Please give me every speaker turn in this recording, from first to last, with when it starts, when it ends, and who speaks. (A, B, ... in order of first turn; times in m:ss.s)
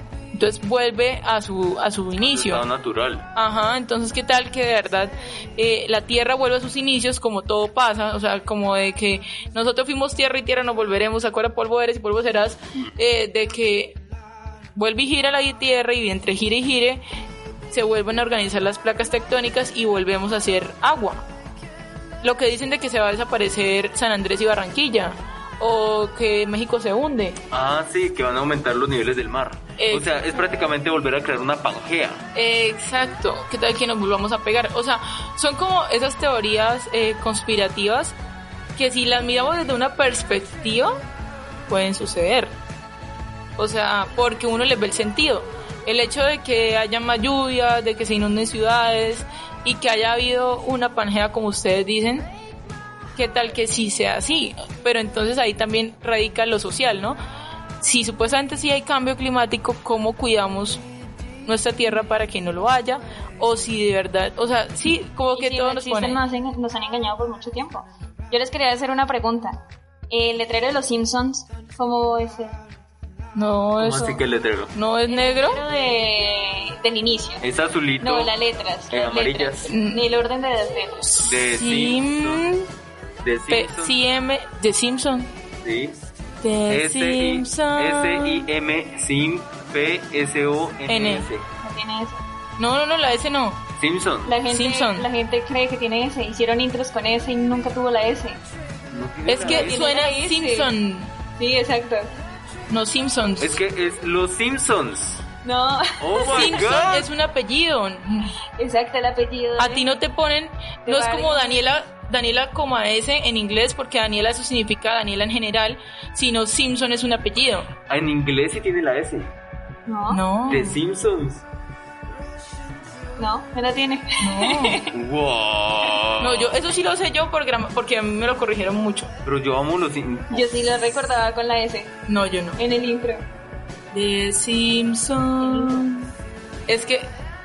0:00.3-0:02.6 A
0:02.2-0:03.3 B
0:03.4-0:14.0 A
0:14.8-0:17.0 A
0:17.7-0:21.2 A
0:22.2-0:27.4 A
0:27.5-0:32.2 B
0:29.8-0:30.4 A
0:32.4-0:38.1 A
0:38.8-0:41.0 A
0:41.7-0:42.5 A
0:43.6-0:52.3 A
0:53.2-0:57.2 A
0:57.8-1:00.8 A
1:01.4-1:06.2 A
1:05.4-1:09.6 C
1:10.1-1:12.6 C
1:13.4-1:14.2 A
1:13.8-1:14.7 B
1:14.7-1:15.6 A
1:15.1-1:17.4 C
1:17.4-1:18.3 B
1:18.0-1:21.2 C
1:18.9-1:19.7 B
1:19.7-1:20.0 A
1:21.2-1:22.4 B
1:21.4-1:22.7 A
1:23.2-1:23.9 B
1:23.5-1:25.3 A
1:25.6-1:26.0 B
1:26.4-1:28.5 A
1:26.7-1:31.5 B
1:30.9-1:31.3 A
1:31.6-1:32.2 C
1:32.6-1:33.6 A
1:33.8-1:34.3 B
1:34.3-1:38.4 C
1:34.5-1:35.1 A
1:38.9-1:39.9 B
1:39.3-1:41.1 A
1:39.4-1:40.7 C
1:41.4-1:42.1 C
1:42.7-1:43.6 A
1:43.4-1:45.2 B
1:45.4-1:46.6 C
1:46.0-1:47.1 B
1:46.2-1:48.3 A
1:48.6-1:49.9 C
1:49.6-1:57.7 A
1:50.9-1:51.6 C
1:57.9-1:59.3 B
1:59.9-2:00.2 C
2:00.1-2:00.8 A
2:00.5-2:01.4 B
2:03.2-2:04.9 C
2:04.2-2:04.8 A
2:04.9-2:06.6 B
2:06.2-2:09.1 A
2:09.2-2:10.8 B
2:10.3-2:11.9 C
2:12.1-2:12.6 A
2:12.6-2:13.2 C
2:13.9-2:16.1 A
2:15.4-2:15.8 C
2:16.7-2:17.1 A